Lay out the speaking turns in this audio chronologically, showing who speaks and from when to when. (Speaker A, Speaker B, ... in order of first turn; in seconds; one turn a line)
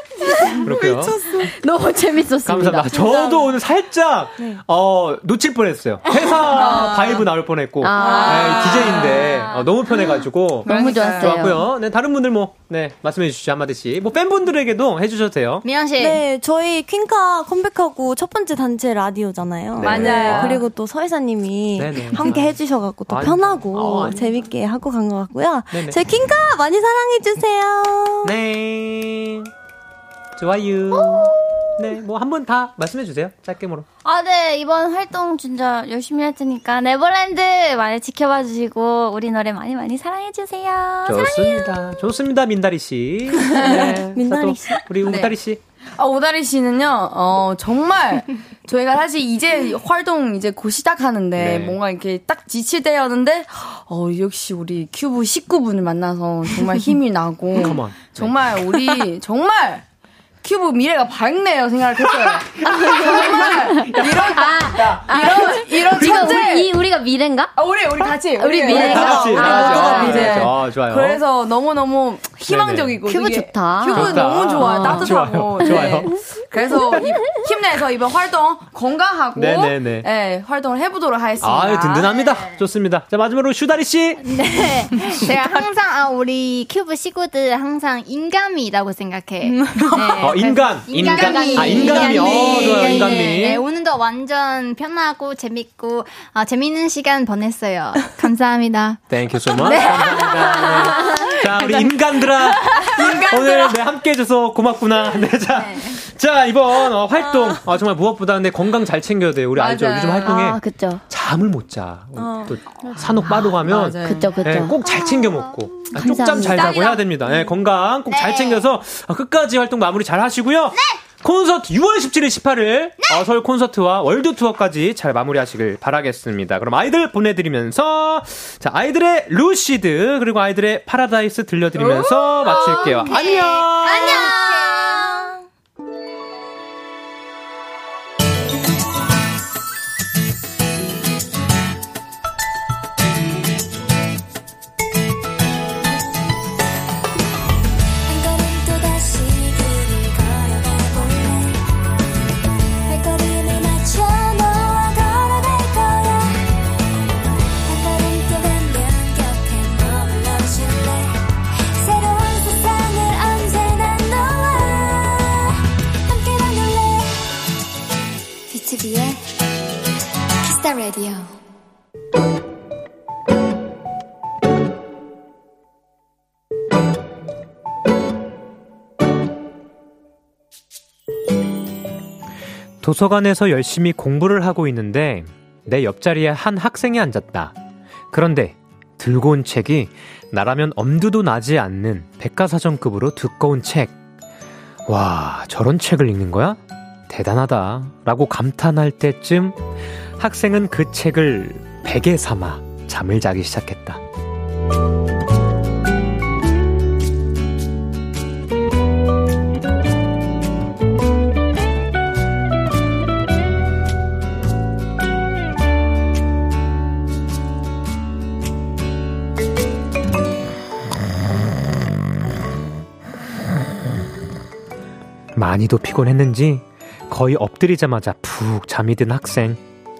Speaker A: 0.1-1.5
Speaker B: 0.6-1.2
Speaker C: 1.4-3.3
Speaker B: 2.4-15.6
Speaker A: 6.4-7.2
Speaker C: 7.8-9.2
Speaker A: 8.0-9.3
Speaker C: 10.6-11.6
Speaker A: 10.7-11.5
Speaker D: 15.6-16.2
Speaker E: 16.0-28.3
Speaker B: 19.8-20.6
Speaker D: 19.8-20.6
Speaker B: 21.8-24.2
Speaker B: 25.7-26.0
Speaker B: 28.2-29.5
Speaker B: 30.4-33.9
Speaker F: 34.0-41.6
Speaker B: 41.0-45.6
Speaker E: 43.5-44.8
Speaker A: 43.5-44.2
Speaker A: 46.0-59.8
Speaker B: 51.4-51.8
Speaker B: 57.5-58.5
Speaker A: 60.4-66.8
Speaker B: 62.6-64.9
Speaker C: 64.0-67.5
Speaker A: 67.5-82.1
Speaker C: 68.3-70.5
Speaker B: 68.7-71.2
Speaker B: 72.5-73.0
Speaker C: 73.0-75.8
Speaker B: 73.9-76.2
Speaker B: 79.3-80.1
Speaker B: 81.4-84.2
Speaker D: 82.2-82.5
Speaker D: 84.2-99.0
Speaker A: 89.5-93.4
Speaker B: 90.2-93.6
Speaker B: 99.1-134.3
Speaker D: 99.6-101.4
Speaker A: 99.6-100.1
Speaker D: 102.6-103.5
Speaker A: 103.0-103.3
Speaker D: 105.5-106.0
Speaker A: 109.5-110.4
Speaker C: 110.2-111.0
Speaker E: 112.2-112.5
Speaker A: 112.9-114.4
Speaker C: 114.0-114.8
Speaker D: 114.8-115.8
Speaker C: 115.9-116.8
Speaker D: 116.4-117.0
Speaker D: 118.1-118.7
Speaker D: 131.9-135.3
Speaker G: 148.1-151.6
Speaker G: 152.8-156.5
Speaker G: 157.6-167.3
Speaker G: 168.5-169.4
Speaker G: 170.4-171.4
Speaker B: 182.8-187.5
Speaker B: 188.1-193.9
Speaker B: 194.9-199.6
Speaker B: 200.2-204.0
Speaker B: 225.3-229.6